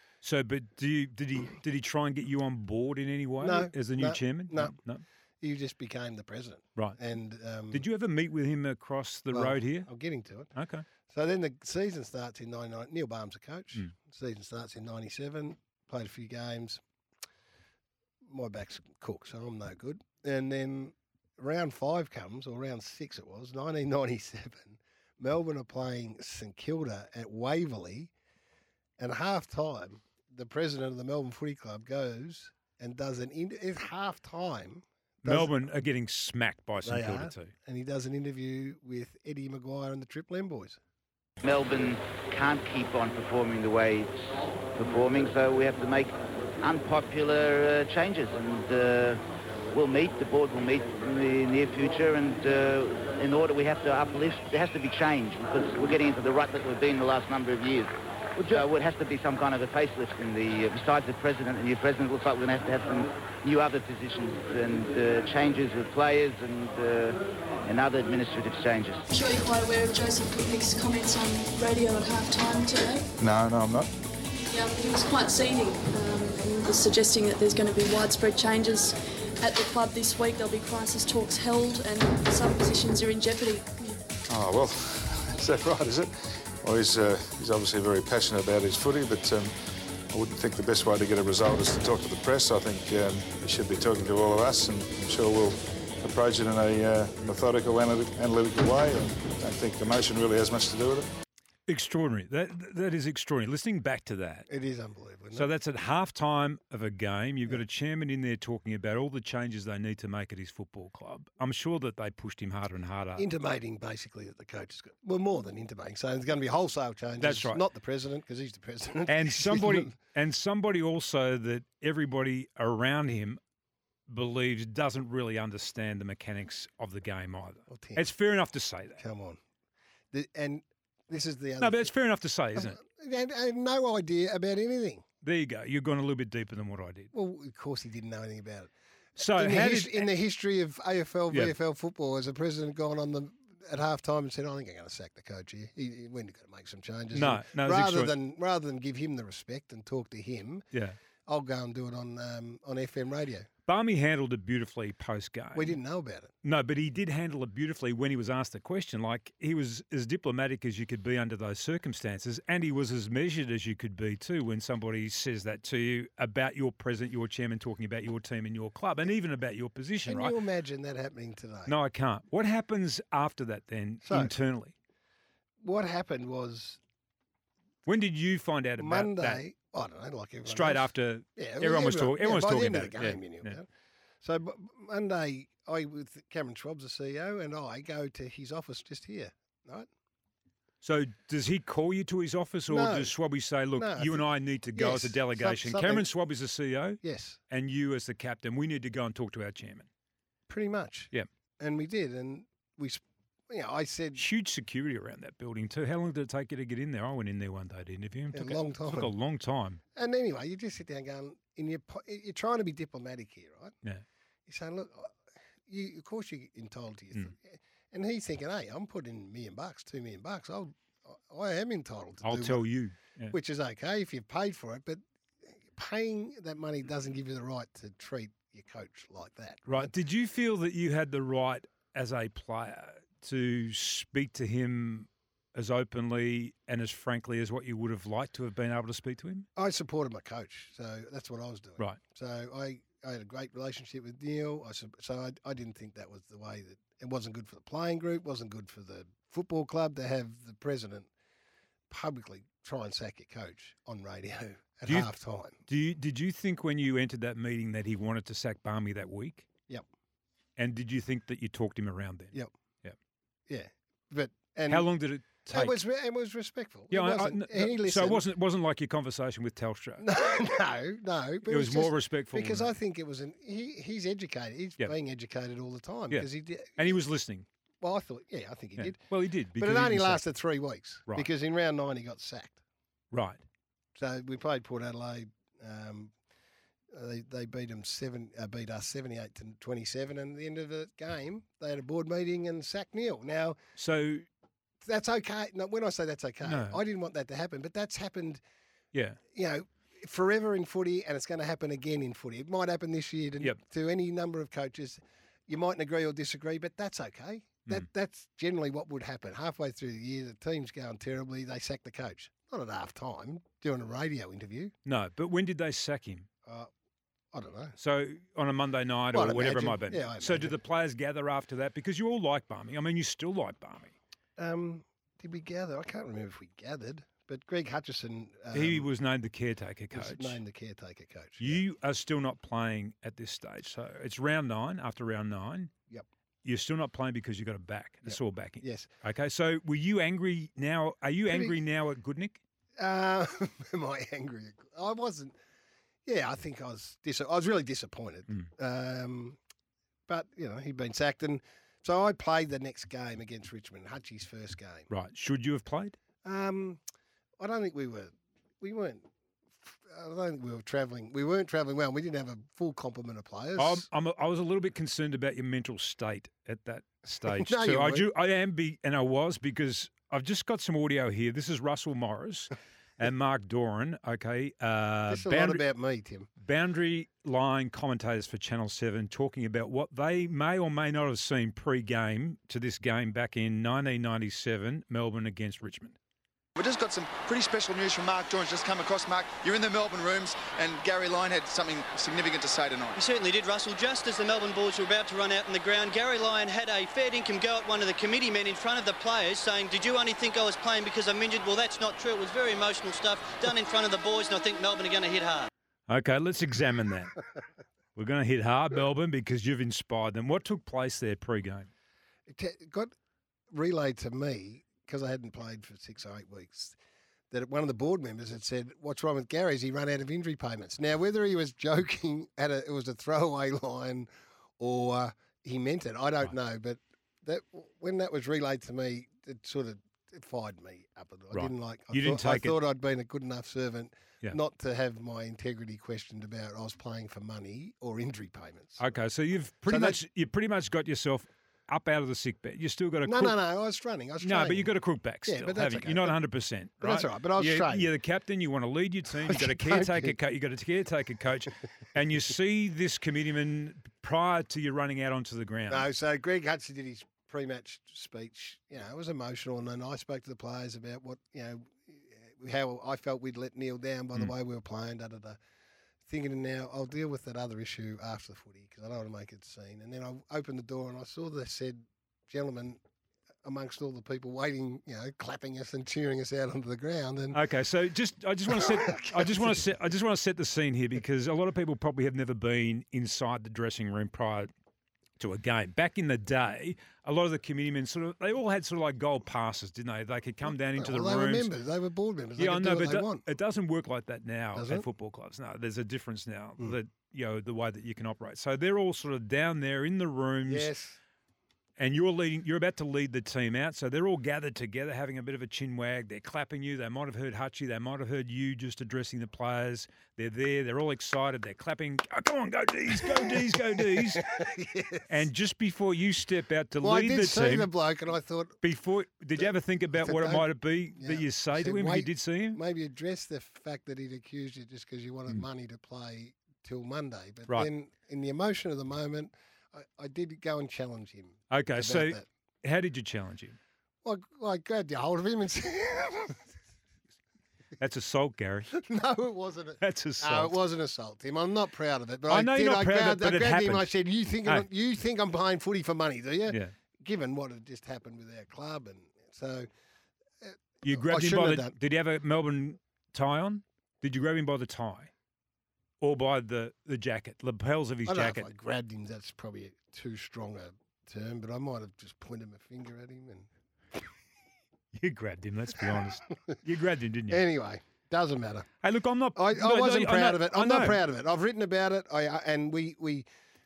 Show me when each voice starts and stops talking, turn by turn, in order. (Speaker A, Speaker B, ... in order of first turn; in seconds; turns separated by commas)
Speaker A: 0.2-5.0, Speaker B: 3.4-4.8, Speaker B: 5.4-7.9, Speaker A: 7.7-9.9, Speaker B: 9.3-10.5, Speaker A: 10.6-10.9, Speaker B: 11.1-16.8, Speaker B: 18.2-28.1, Speaker B: 29.0-35.7, Speaker A: 35.2-37.5, Speaker B: 36.8-40.8, Speaker C: 41.4-44.2, Speaker C: 44.8-49.2, Speaker C: 49.7-69.0, Speaker D: 69.1-73.1, Speaker E: 73.2-73.9, Speaker D: 74.4-84.0, Speaker E: 84.3-89.6, Speaker E: 90.1-101.1, Speaker A: 101.7-104.5, Speaker B: 104.5-105.5, Speaker A: 105.3-113.3, Speaker B: 113.2-119.9, Speaker A: 117.2-117.6, Speaker A: 119.1-123.4, Speaker A: 124.1-129.0, Speaker B: 127.7-128.1, Speaker B: 129.0-129.4, Speaker B: 130.1-131.9, Speaker A: 131.6-132.8, Speaker B: 132.6-135.1, Speaker A: 135.2-137.1, Speaker B: 137.1-138.7, Speaker A: 139.2-140.1, Speaker B: 139.2-150.7, Speaker A: 147.1-148.1, Speaker B: 151.3-153.5, Speaker A: 153.7-155.8, Speaker B: 155.6-156.3, Speaker A: 156.4-170.3, Speaker B: 170.0-171.8, Speaker A: 171.7-174.7, Speaker B: 174.0-174.3, Speaker B: 175.6-176.8, Speaker A: 177.9-179.4, Speaker B: 178.8-183.7, Speaker A: 180.5-183.5, Speaker B: 184.2-189.9, Speaker A: 190.8-197.0, Speaker B: 192.7-193.2, Speaker B: 193.8-196.1, Speaker B: 197.0-197.4, Speaker A: 197.5-199.9, Speaker B: 200.5-204.2, Speaker A: 204.2-209.8, Speaker B: 208.3-209.1, Speaker B: 209.9-213.8, Speaker B: 214.5-222.7, Speaker A: 222.2-223.3, Speaker B: 223.3-229.9, Speaker A: 229.7-239.5, Speaker B: 239.6-251.1, Speaker B: 251.9-255.6, Speaker A: 255.7-259.5, Speaker A: 260.6-262.9, Speaker B: 263.5-264.9, Speaker A: 264.7-265.7, Speaker B: 265.5-268.2, Speaker A: 266.9-270.1, Speaker B: 270.0-277.0, Speaker A: 271.5-272.7, Speaker A: 276.1-277.5, Speaker B: 277.8-279.0, Speaker A: 278.8-280.2, Speaker B: 279.6-282.6, Speaker A: 283.1-283.4, Speaker B: 284.0-286.1, Speaker B: 286.9-293.6, Speaker A: 293.8-294.3, Speaker B: 294.8-298.4, Speaker A: 296.4-296.8, Speaker A: 298.9-299.2, Speaker B: 299.3-314.7, Speaker A: 314.9-316.3, Speaker B: 317.3-317.8, Speaker A: 317.8-323.9, Speaker B: 319.1-320.6, Speaker B: 324.4-328.9, Speaker A: 328.5-330.4, Speaker B: 329.9-331.6, Speaker A: 331.4-335.7, Speaker A: 336.4-342.4, Speaker B: 338.1-338.9, Speaker B: 341.3-341.6, Speaker B: 342.8-345.4, Speaker B: 346.1-349.4, Speaker B: 350.1-354.9, Speaker A: 354.9-356.0, Speaker B: 356.2-356.8, Speaker B: 357.4-359.1, Speaker B: 359.6-363.9, Speaker A: 363.6-375.6, Speaker B: 367.2-368.1, Speaker B: 375.1-376.3, Speaker A: 376.4-386.0, Speaker F: 386.6-393.0, Speaker G: 393.0-405.5, Speaker A: 405.9-407.2, Speaker A: 408.0-411.7, Speaker B: 412.3-412.9, Speaker B: 413.5-416.8, Speaker B: 417.3-424.1, Speaker B: 424.6-438.8, Speaker A: 431.3-432.5, Speaker A: 438.8-443.3, Speaker B: 439.7-440.0, Speaker B: 443.0-446.2, Speaker A: 444.2-455.9, Speaker B: 446.8-447.9, Speaker B: 449.1-450.2, Speaker B: 455.7-465.4, Speaker B: 466.1-472.8, Speaker B: 473.4-477.4, Speaker A: 477.3-484.5, Speaker B: 478.5-479.7, Speaker A: 485.2-491.5, Speaker B: 490.4-493.3, Speaker A: 492.4-500.7, Speaker B: 494.6-494.9, Speaker B: 500.4-501.0, Speaker A: 501.8-514.3, Speaker B: 512.9-515.3, Speaker A: 515.1-517.7, Speaker B: 516.8-518.6, Speaker A: 518.6-522.6, Speaker B: 519.4-532.3, Speaker A: 531.5-533.6, Speaker B: 534.0-536.5, Speaker A: 537.8-538.7, Speaker B: 538.7-549.7, Speaker A: 539.8-540.5, Speaker A: 542.3-543.9, Speaker B: 550.4-551.8, Speaker A: 550.8-555.1, Speaker A: 556.0-558.5, Speaker B: 558.0-564.1, Speaker A: 564.9-567.4, Speaker B: 565.8-566.6, Speaker B: 567.3-568.7, Speaker A: 568.8-571.0, Speaker B: 569.4-573.3